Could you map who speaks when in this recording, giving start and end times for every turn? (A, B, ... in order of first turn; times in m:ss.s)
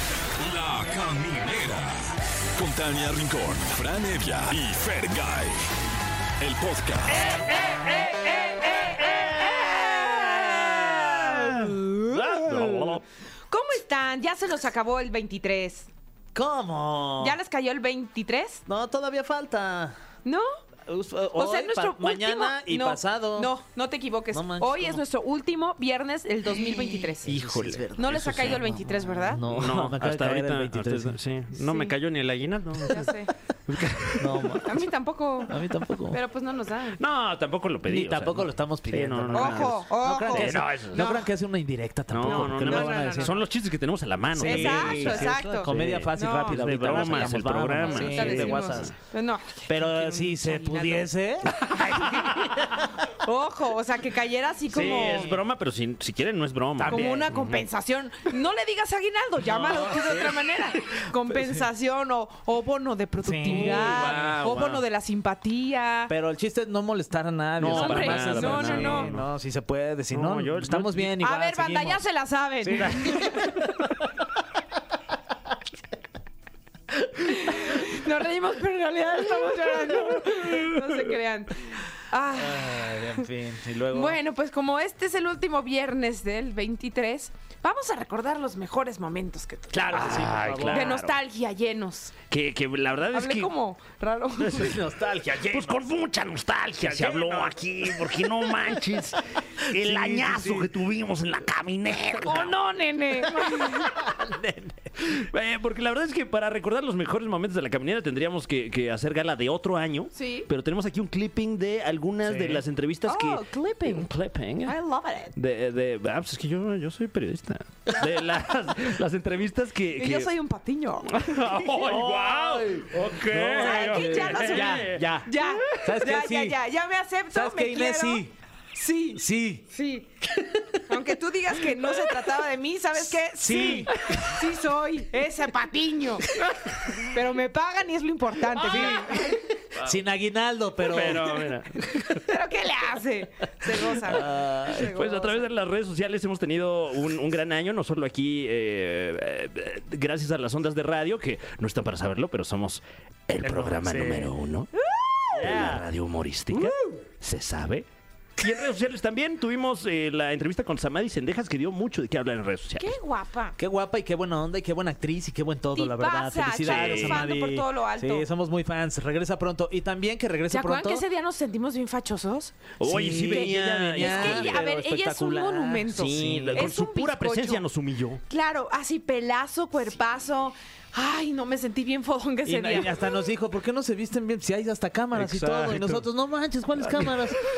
0:00.4-0:02.0 A
0:02.6-0:05.6 A
0:06.4-0:07.3 A
0:07.2-0:09.6 B
0:07.3-0:09.4 C
0:08.5-0:12.0 D
0:10.4-0:13.0 B
0:10.7-0:13.0 C
0:13.5-0:15.9 D
0:16.3-0:17.4 C
0:17.2-0:18.6 D
0:18.7-0:20.0 C
0:20.2-0:20.5 D
0:20.9-0:23.5 C
0:21.4-0:27.3 D
0:24.3-0:25.0 C
0:26.5-0:31.2 C
0:27.3-0:28.6 B
0:28.0-0:29.4 D
0:29.5-0:33.2 B
0:31.6-0:31.9 D
0:32.9-0:33.3 D
0:33.7-0:34.6 B
0:34.2-0:34.8 C
0:34.6-0:37.0 D
0:35.5-0:36.2 C
0:37.0-0:41.0 B
0:37.9-0:43.4 C
0:39.3-0:41.3 D
0:42.1-0:48.9 B
0:42.3-0:43.4 D
0:44.4-0:49.0 C
0:44.4-0:51.1 D
0:49.7-0:52.9 C
0:51.8-0:52.6 B
0:51.9-0:52.2 D
0:53.2-0:55.3 D
0:54.7-0:55.4 C
0:54.7-0:57.7 B
0:56.8-0:57.2 C
0:56.9-1:06.1 D
0:59.5-1:00.4 C
1:01.3-1:01.7 C
1:03.2-1:04.8 C
1:03.5-1:04.4 B
1:06.1-1:12.0 C
1:07.6-1:09.3 B
1:07.6-1:09.1 D
1:10.1-1:11.1 B
1:11.2-1:13.5 D
1:12.6-1:13.8 C
1:12.8-1:13.3 B
1:17.2-1:23.3 D
1:22.3-1:24.2 C
1:23.9-1:32.2 D
1:29.7-1:30.9 C
1:29.9-1:31.2 B
1:32.3-1:33.5 B
1:33.1-1:34.8 D
1:34.4-1:35.8 C
1:35.5-1:42.6 B
1:36.8-1:38.8 C
1:39.7-1:40.7 C
1:42.2-1:44.0 D
1:43.2-1:45.2 C
1:45.0-1:54.8 B
1:50.1-1:50.5 D
1:52.2-1:52.6 C
1:53.0-1:54.1 D
1:54.6-1:55.3 D
1:55.4-2:00.3 B
2:00.0-2:01.3 D
2:01.1-2:05.2 B
2:01.6-2:06.6 C
2:03.5-2:10.1 D
2:07.3-2:08.3 C
2:09.2-2:09.6 C
2:10.3-2:11.0 C
2:10.9-2:16.4 D
2:13.4-2:14.3 C
2:16.9-2:19.4 D
2:18.6-2:21.5 C
2:20.9-2:22.2 B
2:22.2-2:25.5 D
2:24.0-2:24.9 C
2:24.7-2:34.7 B
2:33.4-2:34.3 C
2:34.8-2:35.4 D
2:35.3-2:37.9 B
2:35.4-2:35.9 C
2:38.4-2:42.9 B
2:42.8-2:43.6 D
2:43.6-2:51.1 C
2:45.7-2:48.3 D
2:46.6-2:47.3 B
2:50.5-2:52.7 D
2:52.8-2:54.6 B
2:52.8-2:56.7 C
2:53.2-2:57.6 D
2:56.0-2:58.2 B
2:58.3-3:03.1 D
3:02.4-3:07.4 C
3:05.2-3:06.0 B
3:06.8-3:07.3 B